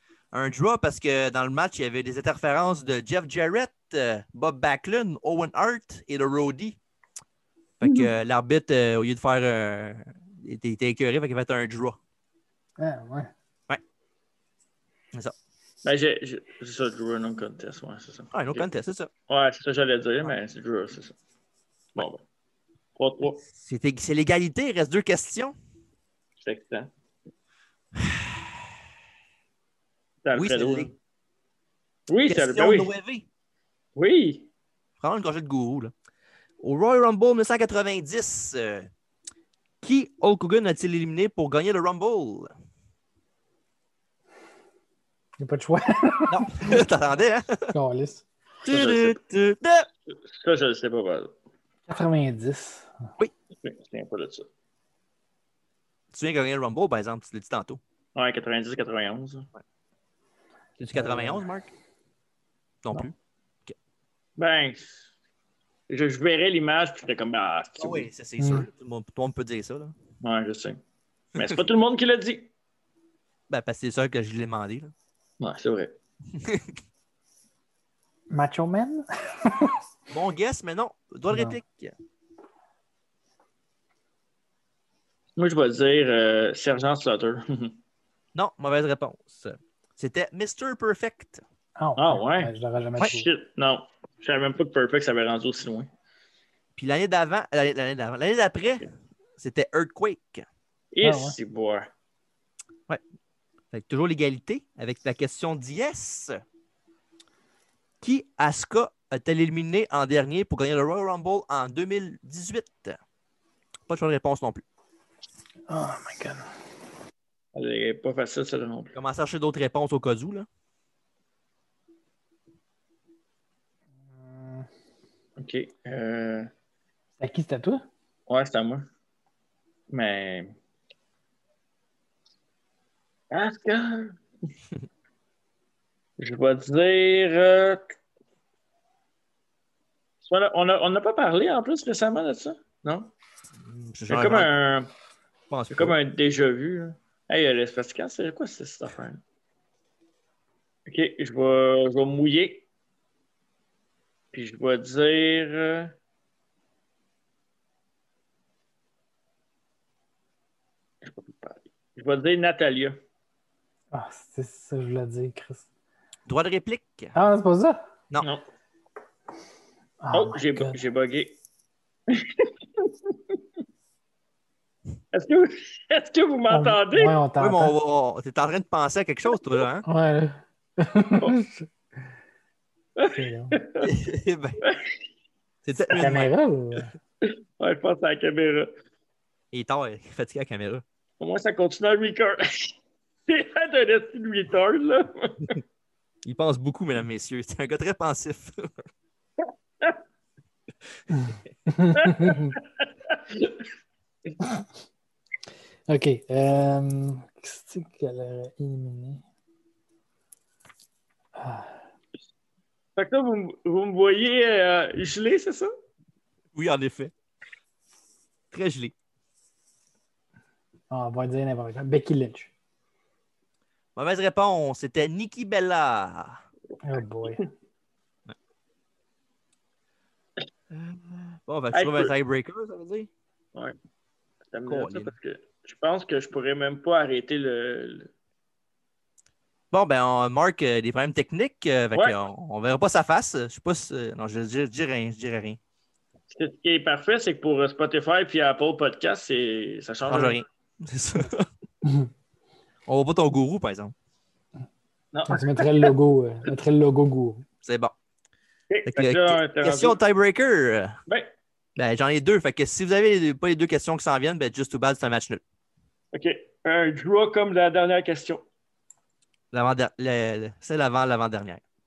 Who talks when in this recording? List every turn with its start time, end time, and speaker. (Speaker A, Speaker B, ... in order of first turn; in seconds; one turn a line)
Speaker A: 0.3-6.8
Speaker A: 7.8-12.0
Speaker B: 12.8-13.3
Speaker C: 15.8-18.7
Speaker A: 18.3-19.1
Speaker C: 19.3-21.1
Speaker C: 21.9-22.2
Speaker C: 22.9-23.4
Speaker A: 23.4-25.5
Speaker C: 26.4-26.9
Speaker A: 27.9-28.4
Speaker C: 30.2-30.9
Speaker A: 30.3-30.9
Speaker C: 32.1-32.9
Speaker A: 32.3-33.2
Speaker C: 34.0-34.5
Speaker A: 35.0-35.9
Speaker A: 36.6-38.9
Speaker A: 39.8-42.5
Speaker B: 45.4-46.8
Speaker A: 46.3-47.7
Speaker B: 47.7-48.2
Speaker A: 48.6-49.9
Speaker C: 48.7-49.1
Speaker C: 50.1-51.3
Speaker B: 51.9-52.9
Speaker C: 53.6-54.5
Speaker A: 56.1-57.8
Speaker C: 58.1-59.5
Speaker A: 60.8-61.7
Speaker B: 60.9-61.4
Speaker A: 62.8-63.1
Speaker C: 64.4-65.1
Speaker C: 65.9-68.1
Speaker A: 67.8-69.9
Speaker B: 68.4-68.7
Speaker C: 70.2-70.8
Speaker C: 71.3-72.5
Speaker A: 71.4-71.6
Speaker A: 73.5-74.9
Speaker C: 75.4-75.9
Speaker A: 76.3-76.8
Speaker B: 78.3-79.8
Speaker A: 80.1-81.9
Speaker B: 81.3-81.6
Speaker C: 85.4-87.8
Speaker A: 88.3-91.4
Speaker B: 91.8-93.3
Speaker C: 92.0-95.9
Speaker A: 96.8-100.4
Speaker C: 100.9-101.9
Speaker B: 101.0-101.4
Speaker A: 103.7-106.4
Speaker A: 108.0-113.0
Speaker A: 113.9-114.6
Speaker B: 115.7-116.5
Speaker C: 117.5-118.9
Speaker A: 118.9-120.5
Speaker B: 124.2-124.7
Speaker C: 125.4-126.5
Speaker B: 127.2-127.8
Speaker C: 128.3-128.9
Speaker C: 129.9-130.5
Speaker C: 133.3-134.2
Speaker C: 136.2-138.0
Speaker C: 140.2-143.1
Speaker A: 143.6-144.5
Speaker C: 144.1-144.9
Speaker A: 145.5-145.9
Speaker C: 145.7-149.2
Speaker C: 150.8-152.6
Speaker C: 154.3-155.9
Speaker C: 161.0-163.0
Speaker B: 163.9-165.7
Speaker A: 166.2-167.1
Speaker B: 167.1-167.8
Speaker B: 170.0-170.8
Speaker C: 170.1-171.4
Speaker C: 172.1-172.9
Speaker C: 175.1-177.2
Speaker B: 176.5-177.7
Speaker A: 177.4-179.8
Speaker B: 179.8-181.6
Speaker C: 182.9-183.9
Speaker B: 183.1-183.6
Speaker A: 183.8-184.6
Speaker C: 184.6-184.9
Speaker A: 185.6-186.3
Speaker B: 185.9-186.9
Speaker C: 187.2-188.7
Speaker A: 189.5-190.8
Speaker C: 191.2-192.8
Speaker C: 193.3-195.6
Speaker A: 196.2-198.9
Speaker B: 201.1-202.5
Speaker C: 201.9-203.6
Speaker B: 205.9-209.2
Speaker B: 211.3-211.8
Speaker C: 212.9-215.7
Speaker A: 216.5-217.1
Speaker A: 218.5-218.9
Speaker B: 220.9-222.5
Speaker A: 223.9-226.4
Speaker B: 226.8-227.4
Speaker A: 230.7-233.1
Speaker C: 231.7-232.1
Speaker C: 234.5-238.1
Speaker A: 234.7-235.1
Speaker A: 239.7-245.6
Speaker C: 246.3-250.4
Speaker A: 250.1-251.5
Speaker A: 252.9-253.9
Speaker C: 255.1-255.9
Speaker B: 255.3-257.4
Speaker A: 257.6-257.9
Speaker C: 258.7-259.9
Speaker A: 258.9-261.0
Speaker A: 261.8-265.4
Speaker C: 266.1-268.4
Speaker A: 269.5-271.6